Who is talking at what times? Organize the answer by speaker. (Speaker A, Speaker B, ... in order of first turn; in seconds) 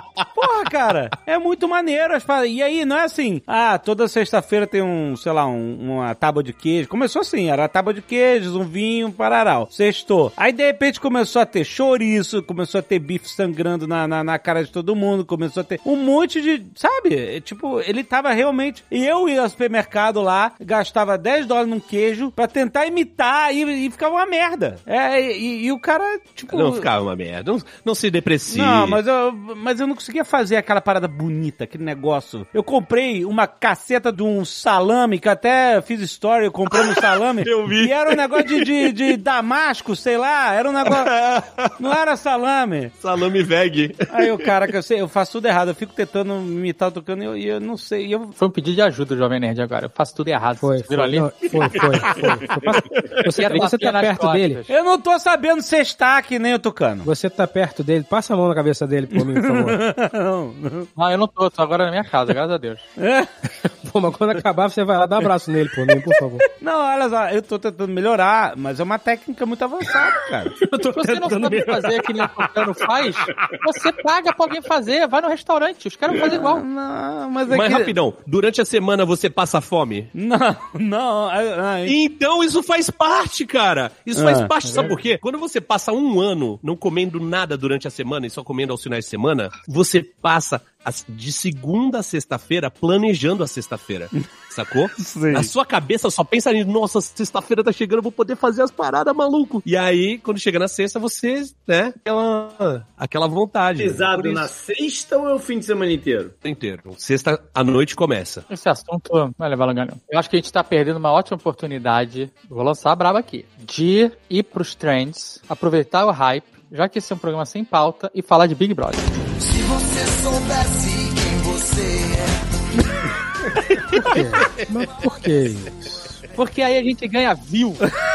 Speaker A: 0.3-26.9, 28.5-41.1, 41.8-43.0, 44.1-48.4, 54.7-57.1, 59.1-60.9, 63.0-63.3, 66.6-70.6, 76.2-77.9, 80.2-82.0, 84.1-84.5, 95.0-95.5
Speaker B: 26.5-29.0, 36.7-38.9, 40.8-41.7, 43.0-44.5, 77.5-80.1, 81.9-104.5, 106.4-108.5
Speaker C: 48.4-51.9, 53.4-54.7, 61.0-62.9, 70.7-76.7, 108.5-119.1, 126.3-127.8
Speaker D: 50.6-54.6, 57.0-59.8, 63.6-66.4, 84.6-85.0, 123.9-126.2
Speaker E: 103.8-106.3